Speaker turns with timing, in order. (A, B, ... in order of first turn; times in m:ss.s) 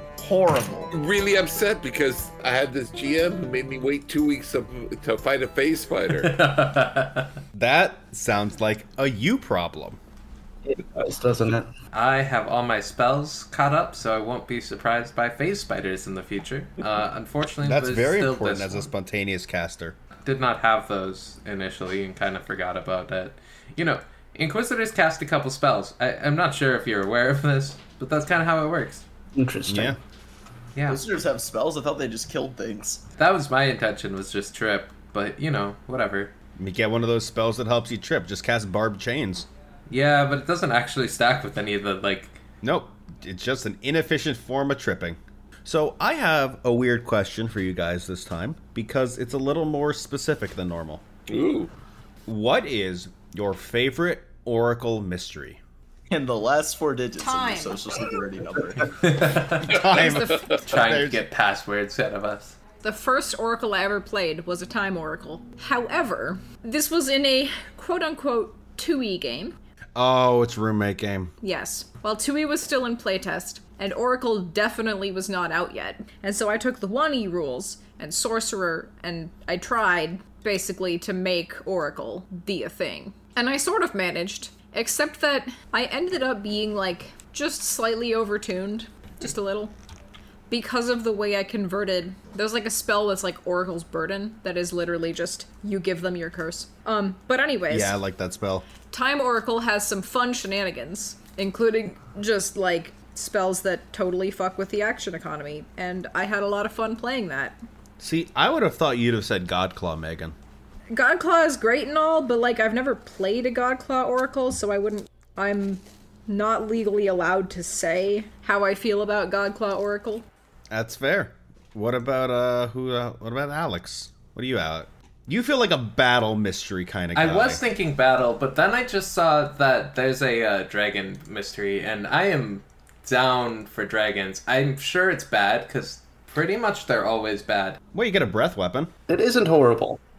0:00.2-0:00.9 A
0:00.9-0:06.4 B
0:06.1-0:07.4 C
0:07.6-0:10.0 D
0:10.7-0:11.7 E
0:11.9-0:18.9 C
0:17.6-0:20.0 D
0:20.2-0:29.0 C
0:29.4-0:30.0 E
0:29.7-0:30.0 D
0:30.8-0:31.0 C
0:30.9-0:33.0 A
0:33.2-0:36.3 C
0:36.6-0:39.5 D
0:39.9-0:42.4 C
0:42.6-0:51.0 D
0:51.3-0:51.7 B
0:52.3-0:55.6 D
0:56.1-0:59.0 A
0:57.2-0:58.2 F
0:59.0-1:02.6 C
0:59.7-1:01.2 D
1:00.0-1:00.6 F
1:00.2-1:00.6 B
1:02.8-1:09.6 F
1:10.0-1:11.3 D
1:11.4-1:29.8 F
1:30.5-1:38.0 F
1:37.7-1:38.7 D
1:38.9-1:47.6 F
1:48.0-1:50.4 D
1:50.9-2:00.3 F
2:00.7-2:07.6 D
2:07.2-2:17.8 C
2:17.9-2:18.9 D
2:19.1-2:20.0 E